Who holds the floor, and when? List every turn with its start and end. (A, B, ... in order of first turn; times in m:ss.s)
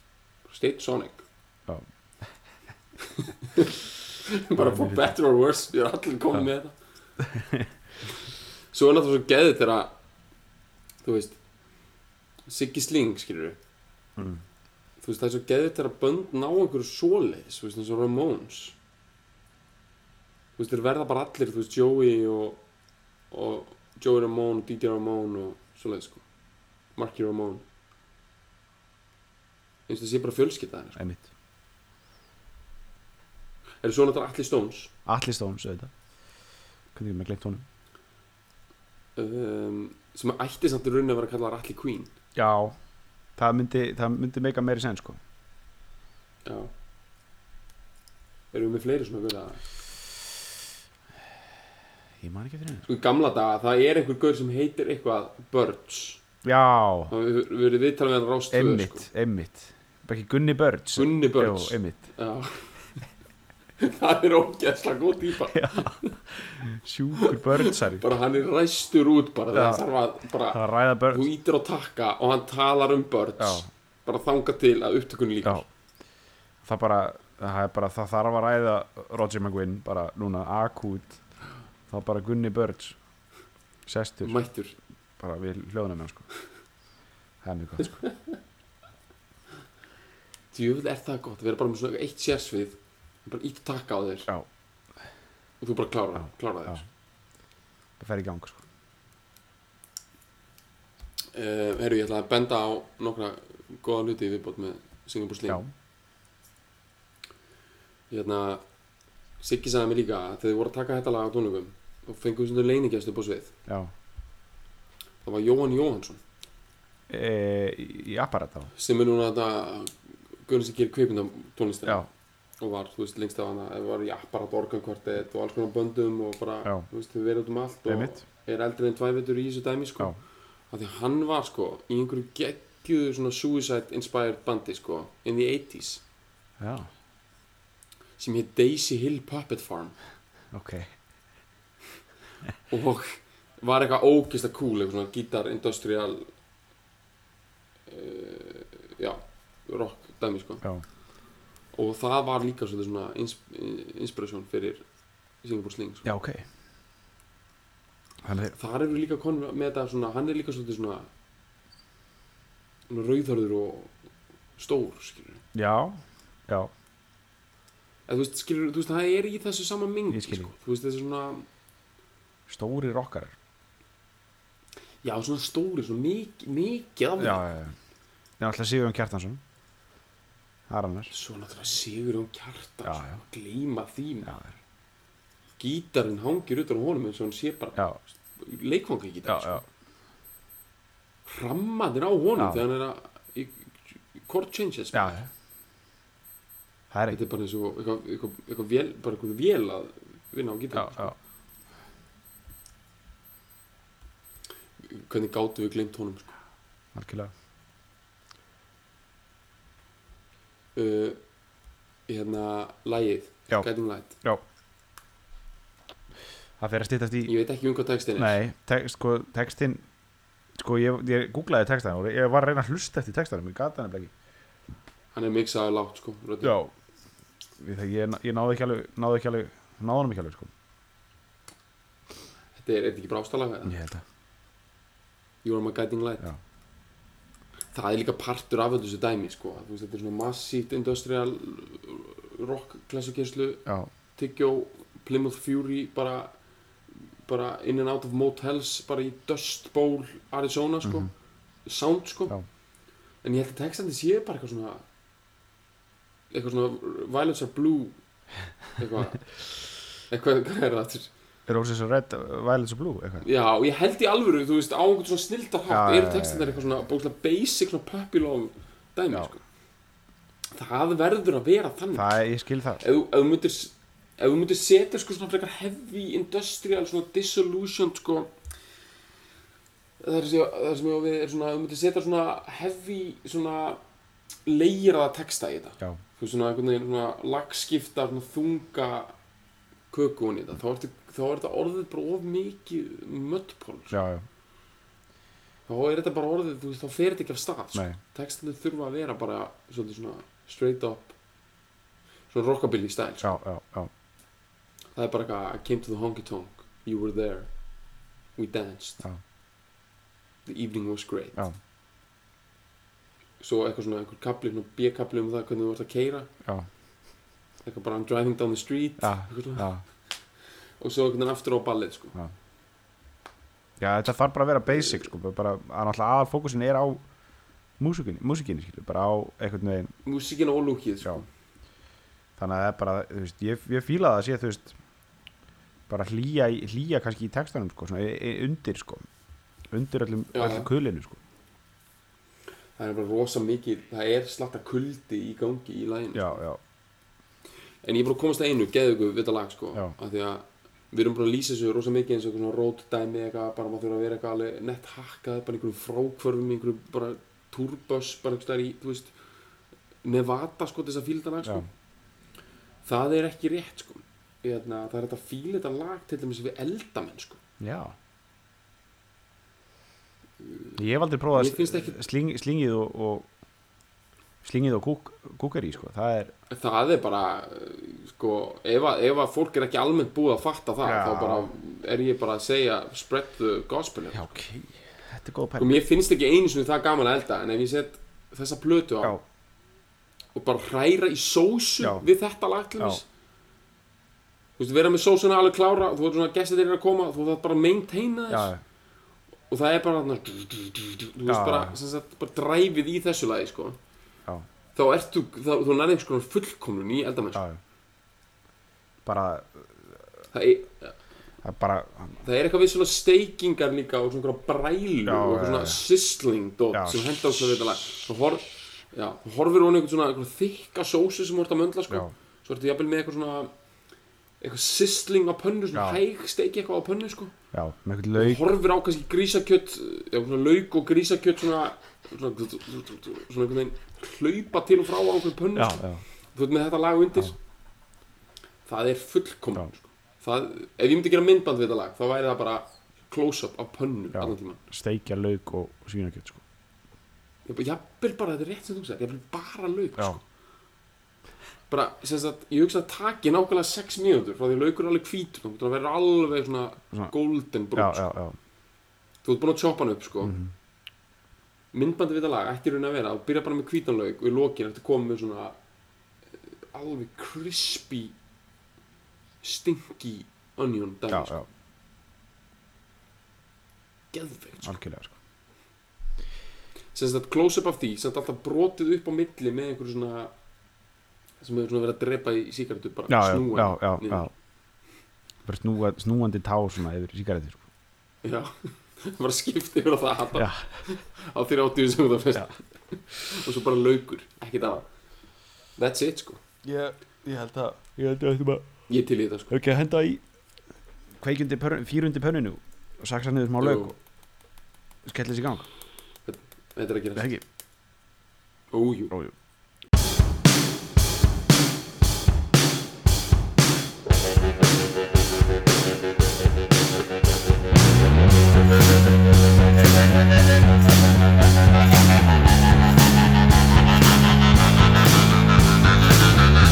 0:00.5-0:01.2 A
0:03.1-0:06.8 A
0:04.6-0:05.1 B
0:07.2-0:07.7 B
0:08.7-0:09.9 A
0:11.0-0:11.4 A
0:12.5-0:13.6 A
0:14.2-0:14.4 B
0:15.0-0:18.8 A
0:20.6-0:22.6 A
0:23.3-0:26.2 A
0:27.0-0:27.6 A
0:29.9-0:31.0 A
0:31.0-0:31.3 B
0:33.8-0:34.9 A
0:35.1-0:35.9 B
0:37.0-0:37.6 B
0:39.2-0:42.1 A
0:42.4-0:42.8 B
0:43.4-0:45.2 B
0:46.4-0:46.7 A
0:48.5-0:49.6 A
0:52.2-0:52.9 B
0:52.9-0:56.2 A
0:56.4-0:57.1 B
0:57.1-0:59.1 A
0:58.5-1:02.0 B
1:01.0-1:02.8 A
1:03.8-1:06.1 A
1:05.5-1:08.0 B
1:07.2-1:15.7 A
1:09.5-1:09.8 B
1:10.5-1:11.3 B
1:13.4-1:13.7 B
1:16.6-1:21.2 B
1:21.9-1:23.0 B
1:23.9-1:24.4 B
1:24.2-1:24.8 A
1:25.2-1:26.3 B
1:27.4-1:28.0 B
1:28.0-1:28.3 A
1:30.5-1:34.3 A
1:35.6-1:36.8 A
1:38.0-1:38.6 B
1:41.3-1:45.6 A
1:48.1-1:48.6 A
1:49.4-1:53.6 A
1:53.7-1:53.9 B
1:55.2-1:56.2 A
1:57.1-1:58.7 B
1:58.8-2:02.1 A
2:02.6-2:10.2 A
2:07.9-2:08.2 B
2:10.7-2:16.0 A
2:16.6-2:16.9 B
2:18.2-2:20.0 A
2:20.5-2:20.9 B
2:22.7-2:26.3 A
2:27.9-2:30.6 A
2:31.7-2:34.8 A
2:35.4-2:36.1 A
2:36.0-2:36.4 B
2:38.2-2:38.6 B
2:38.5-2:41.1 A
2:42.9-2:43.9 A
2:44.6-2:45.4 A
2:45.5-2:46.7 B
2:48.1-2:51.5 A
2:50.1-2:50.5 B
2:52.5-2:53.3 B
2:55.0-2:57.4 A
2:57.2-2:57.8 B
2:58.4-2:59.4 B
3:00.7-3:01.1 B
3:01.1-3:04.3 A
3:02.8-3:03.2 B
3:04.3-3:04.6 B
3:05.6-3:09.6 A
3:09.3-3:09.6 B
3:11.3-3:15.2 A
3:12.4-3:12.6 B
3:14.9-3:15.3 B
3:16.9-3:17.2 B
3:17.1-3:21.2 A
3:20.7-3:21.2 B
3:24.9-3:26.3 A
3:27.0-3:27.3 B
3:30.8-3:31.2 A
3:32.1-3:34.2 A
3:36.6-3:37.3 B
3:37.3-3:38.4 A
3:38.2-3:39.8 B
3:40.6-3:44.1 B
3:45.1-3:46.6 A
3:46.4-3:46.7 B
3:47.6-3:50.5 B
3:52.6-3:53.8 A
3:53.7-3:54.0 B
3:55.4-3:56.3 A
3:57.7-4:03.6 A
4:04.2-4:06.3 A
4:07.2-4:11.1 A
4:10.8-4:11.1 B
4:11.7-4:12.4 A
4:13.2-4:14.8 A
4:16.3-4:18.0 A
4:18.8-4:19.2 A
4:20.1-4:21.1 A
4:21.5-4:23.2 B
4:23.2-4:29.4 A
4:25.7-4:26.5 B
4:30.5-4:32.2 A
4:31.9-4:32.8 B
4:32.8-4:38.3 A
4:40.0-4:43.8 A
4:44.4-4:49.1 A
4:49.9-4:54.0 A
4:53.9-4:54.2 B
4:55.7-5:01.2 A
5:02.3-5:03.4 A
5:03.2-5:03.9 B
5:05.0-5:07.5 A
5:08.4-5:09.0 A
5:10.5-5:11.4 A
5:13.4-5:16.3 A
5:17.6-5:19.7 A
5:19.0-5:19.8 B
5:20.8-5:22.2 A
5:23.8-5:27.0 B
5:24.7-5:25.1 A
5:27.8-5:29.9 B
5:30.0-5:31.3 A
5:32.4-5:34.8 B
5:35.9-5:39.1 B
5:39.7-5:41.2 B
5:40.3-5:40.7 A
5:42.8-5:46.4 A
5:46.1-5:46.6 B
5:47.8-5:59.1 A
6:00.0-6:01.7 A
6:02.8-6:07.4 A
6:07.6-6:08.0 B
6:10.4-6:10.8 A
6:10.8-6:13.3 B
6:11.3-6:12.0 A
6:14.4-6:16.3 B
6:16.5-6:24.3 A
6:20.8-6:21.5 B
6:24.1-6:25.8 B
6:25.6-6:29.2 A
6:30.4-6:33.0 A
6:31.8-6:32.1 B
6:34.6-6:38.5 A
6:38.3-6:38.6 B
6:39.5-6:43.8 A
6:41.3-6:41.8 B
6:44.8-6:47.4 A
6:47.4-6:47.6 B
6:49.0-6:50.1 B
6:50.3-6:51.0 A
6:51.4-6:52.2 B
6:52.2-7:03.5 A
6:55.1-6:55.8 B
6:56.7-6:57.0 B
7:04.4-7:07.3 A
7:05.8-7:06.0 B
7:07.5-7:08.5 B
7:08.2-7:17.4 A
7:15.6-7:16.0 B
7:18.7-7:24.6 A
7:24.1-7:26.4 B
7:27.5-7:30.2 A
7:31.7-7:38.1 A
7:37.8-7:38.4 B
7:39.2-7:40.4 A
7:40.2-7:40.5 B
7:41.7-7:45.6 A
7:46.4-7:48.2 A
7:49.4-7:51.4 A
7:51.1-7:51.5 B
7:54.1-7:54.8 A
7:54.6-7:55.1 B
7:56.9-8:00.3 A
8:01.4-8:04.3 A
8:03.1-8:04.3 B
8:05.4-8:07.6 B
8:08.2-8:14.9 A
8:10.4-8:10.8 B
8:15.8-8:16.4 A
8:16.6-8:18.7 B
8:18.9-8:19.5 A
8:19.5-8:20.2 B
8:21.2-8:24.0 B
8:23.6-8:24.0 A
8:25.0-8:25.7 B
8:26.3-8:27.3 A
8:27.2-8:27.4 B
8:28.7-8:29.1 A